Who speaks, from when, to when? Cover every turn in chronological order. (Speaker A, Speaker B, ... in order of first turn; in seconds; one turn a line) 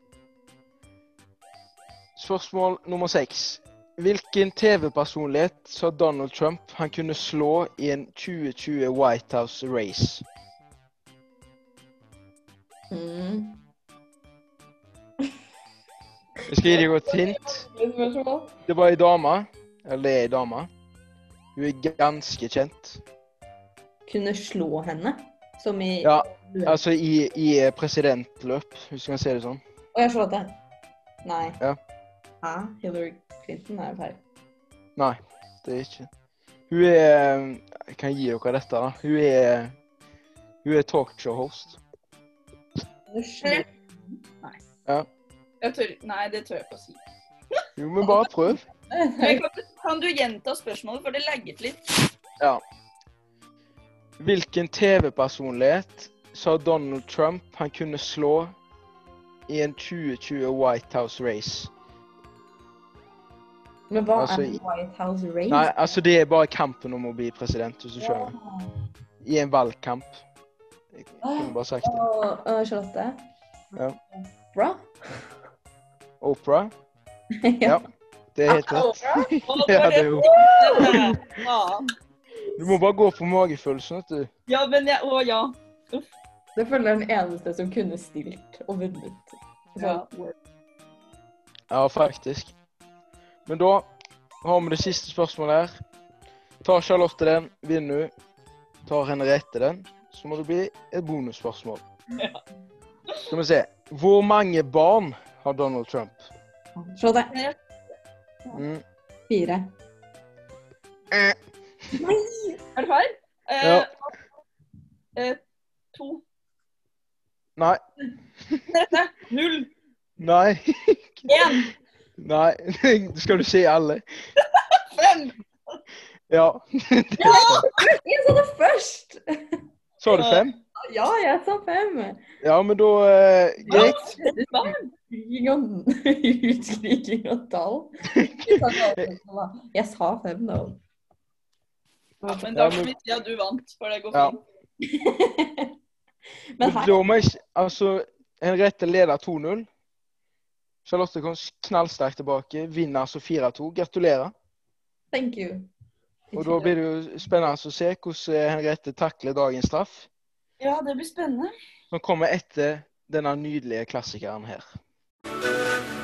Speaker A: 2.1-10.2
Speaker B: 12.9-13.6
Speaker A: 16.5-17.6
Speaker B: 16.6-18.6
Speaker A: 18.6-20.7
Speaker A: 21.6-23.0
Speaker B: 24.1-26.8
Speaker A: 26.0-29.6
Speaker B: 29.9-30.6
Speaker B: 31.2-31.6
Speaker B: 32.4-34.2
Speaker A: 35.0-36.1
Speaker A: 36.7-39.7
Speaker A: 40.6-41.8
Speaker B: 43.1-44.2
Speaker C: 45.6-47.0
Speaker A: 47.8-48.6
Speaker B: 48.0-49.4
Speaker C: 49.2-51.9
Speaker A: 54.2-58.5
Speaker A: 59.5-61.7
Speaker B: 63.9-65.7
Speaker A: 64.1-64.6
Speaker A: 65.5-68.3
Speaker B: 68.0-68.7
Speaker A: 69.2-70.2
Speaker A: 70.9-72.0
Speaker B: 71.2-73.2
Speaker B: 74.1-75.3
Speaker A: 76.2-76.7
Speaker B: 77.3-77.8
Speaker A: 77.6-80.3
Speaker B: 78.5-79.3
Speaker C: 79.4-81.9
Speaker B: 80.2-81.0
Speaker A: 80.8-81.2
Speaker A: 82.6-84.3
Speaker C: 84.5-86.1
Speaker B: 86.5-90.0
Speaker C: 89.8-90.3
Speaker A: 91.7-92.5
Speaker A: 93.5-93.9
Speaker A: 94.4-95.7
Speaker A: 96.6-98.1
Speaker A: 98.8-101.8
Speaker A: 103.3-106.2
Speaker B: 106.8-107.3
Speaker C: 107.3-107.6
Speaker A: 108.5-108.8
Speaker B: 109.3-109.7
Speaker A: 111.1-111.3
Speaker B: 112.0-112.5
Speaker C: 112.7-113.9
Speaker A: 113.6-113.9
Speaker C: 115.1-115.4
Speaker C: 115.9-116.2
Speaker C: 118.7-119.7
Speaker A: 120.2-121.3
Speaker C: 121.3-121.7
Speaker A: 122.2-124.0
Speaker C: 124.6-125.3
Speaker A: 126.3-127.7
Speaker B: 127.2-129.6
Speaker C: 127.2-127.8
Speaker A: 130.0-130.5
Speaker C: 130.1-130.4
Speaker B: 130.8-132.2
Speaker A: 132.4-134.0
Speaker B: 133.6-140.8
Speaker C: 133.7-134.9
Speaker A: 138.1-139.0
Speaker A: 142.2-142.9
Speaker C: 142.3-144.4
Speaker B: 144.8-145.7
Speaker B: 146.5-147.0
Speaker A: 146.6-149.7
Speaker A: 150.8-154.3
Speaker B: 155.1-155.7
Speaker B: 156.3-156.7
Speaker A: 156.3-160.1
Speaker C: 160.6-161.5
Speaker A: 161.9-164.7